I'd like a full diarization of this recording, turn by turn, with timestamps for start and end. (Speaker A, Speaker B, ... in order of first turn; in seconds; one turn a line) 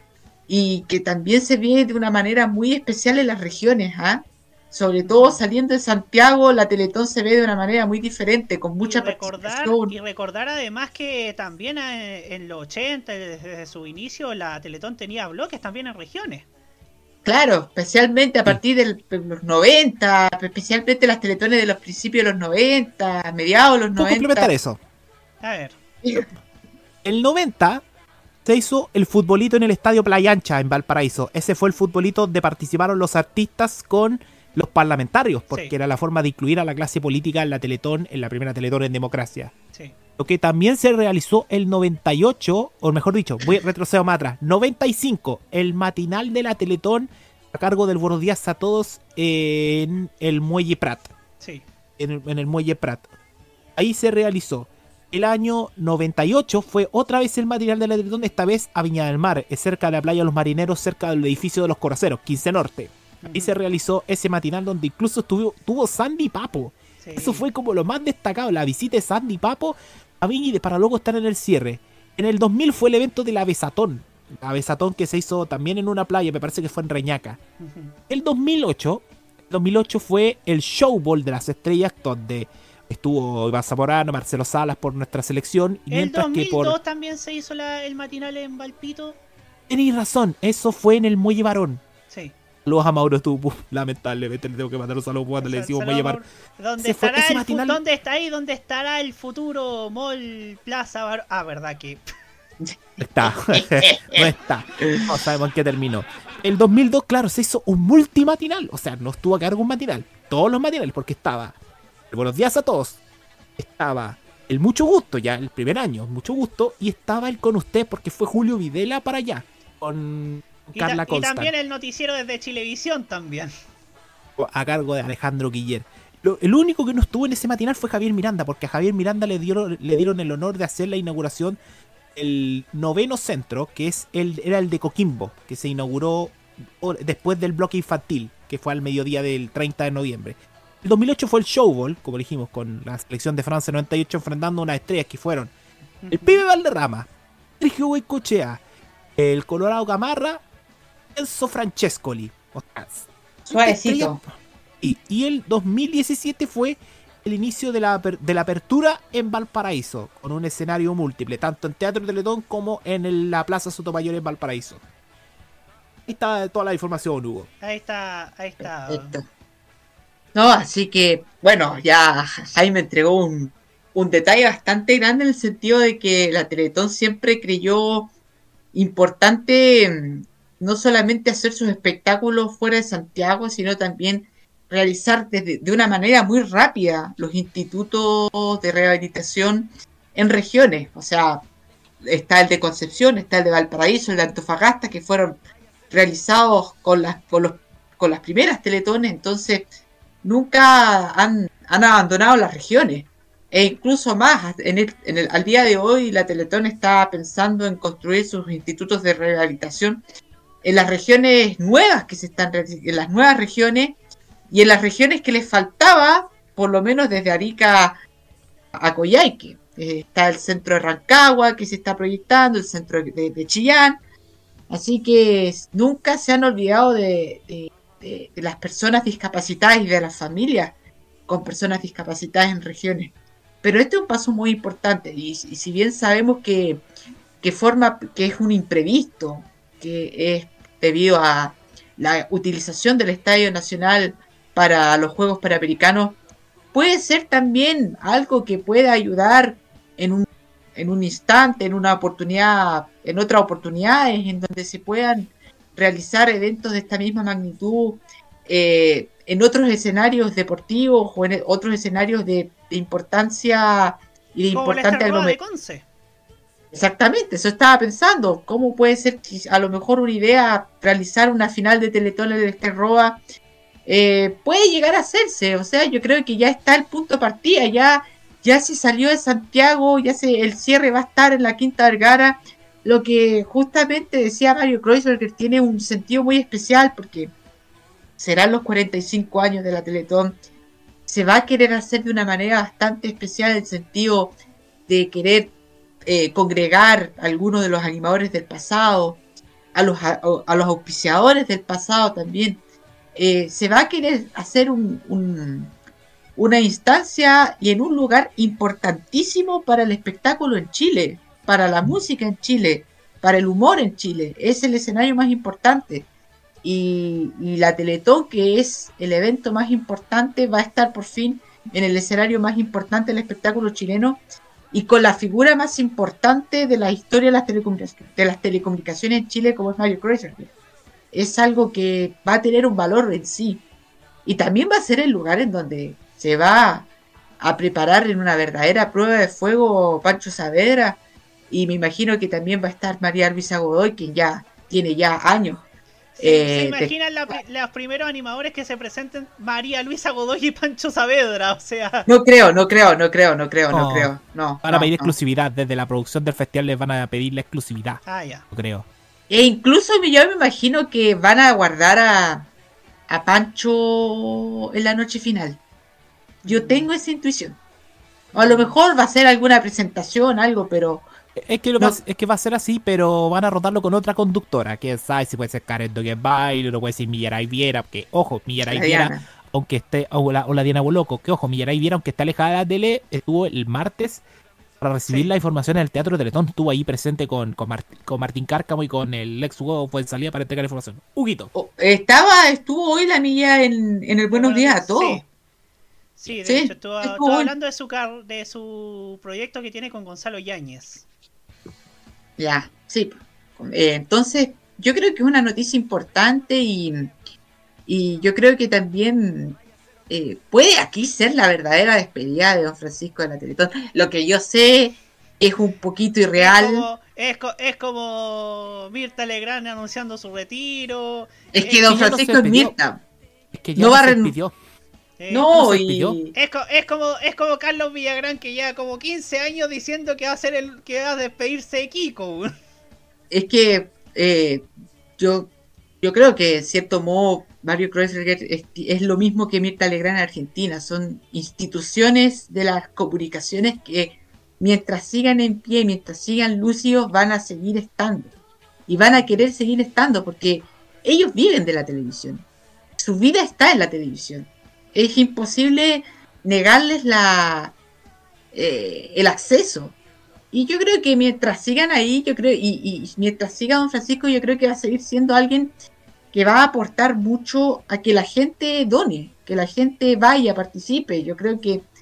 Speaker A: 0.5-9.9
Speaker B: 5.0-5.4
Speaker B: 8.8-16.5
Speaker A: 17.2-24.5
Speaker C: 23.9-24.8
Speaker B: 25.4-25.8
Speaker A: 26.0-26.3
Speaker C: 27.0-27.8
Speaker C: 28.4-39.5
Speaker C: 40.2-51.1
Speaker B: 51.4-51.6
Speaker C: 52.0-53.1
Speaker C: 53.8-77.4
Speaker B: 63.2-63.5
Speaker B: 67.0-67.4
Speaker B: 77.6-78.0
Speaker C: 78.1-86.8
Speaker B: 85.9-89.2
Speaker C: 89.7-91.8
Speaker B: 92.1-92.3
Speaker C: 92.6-96.2
Speaker B: 95.4-102.0
Speaker C: 96.8-97.8
Speaker A: 102.6-105.1
Speaker C: 103.0-111.6
Speaker C: 112.1-113.0
Speaker C: 113.6-121.5
Speaker B: 120.8-123.5
Speaker C: 124.4-131.6
Speaker C: 132.2-145.5
Speaker B: 146.0-146.4
Speaker C: 146.1-147.1
Speaker C: 147.6-148.6
Speaker C: 149.2-150.4
Speaker C: 151.1-154.2
Speaker A: 153.5-154.2
Speaker C: 154.8-164.8
Speaker C: 166.1-167.5
Speaker B: 167.6-169.2
Speaker A: 168.6-169.2
Speaker A: 170.3-178.1
Speaker A: 178.7-191.4
Speaker A: 192.0-199.7
Speaker A: 200.2-210.0
Speaker A: 210.6-218.0
Speaker A: 218.7-224.0
Speaker A: 224.7-230.7
Speaker A: 231.3-236.8
Speaker A: 237.4-246.2
Speaker A: 246.7-265.4
Speaker B: 264.5-265.9
Speaker A: 266.7-273.2
Speaker A: 273.9-287.3
Speaker A: 288.2-290.4
Speaker A: 291.1-294.3
Speaker A: 294.9-295.5
Speaker A: 296.0-299.2
Speaker A: 299.7-302.6
Speaker A: 303.1-305.8
Speaker A: 306.4-316.1
Speaker A: 316.6-330.5
Speaker A: 331.1-333.6
Speaker A: 334.2-336.9
Speaker A: 337.4-345.6
Speaker B: 346.2-352.1
Speaker A: 346.2-346.9
Speaker A: 352.1-355.1
Speaker C: 353.7-354.1
Speaker C: 354.6-358.9
Speaker B: 358.1-358.4
Speaker A: 359.3-362.5
Speaker A: 363.1-365.6
Speaker B: 366.4-366.9
Speaker A: 366.4-367.6
Speaker A: 368.3-371.1
Speaker B: 368.4-368.7
Speaker C: 371.4-384.2
Speaker A: 378.6-379.2
Speaker C: 384.8-391.5
Speaker A: 391.5-395.2
Speaker B: 394.3-395.3
Speaker B: 396.2-401.0
Speaker A: 396.3-397.5
Speaker A: 402.4-407.1
Speaker A: 407.9-416.9
Speaker B: 416.4-421.8
Speaker A: 421.5-423.0
Speaker C: 421.7-422.7
Speaker C: 423.5-424.5
Speaker A: 423.8-424.3
Speaker B: 425.2-425.5
Speaker A: 425.3-426.3
Speaker C: 425.5-426.2
Speaker B: 426.3-432.5
Speaker A: 433.3-448.3
Speaker A: 448.9-452.4
Speaker B: 449.1-449.4
Speaker A: 453.0-457.8
Speaker A: 458.5-459.9
Speaker A: 460.5-465.7
Speaker A: 466.3-471.8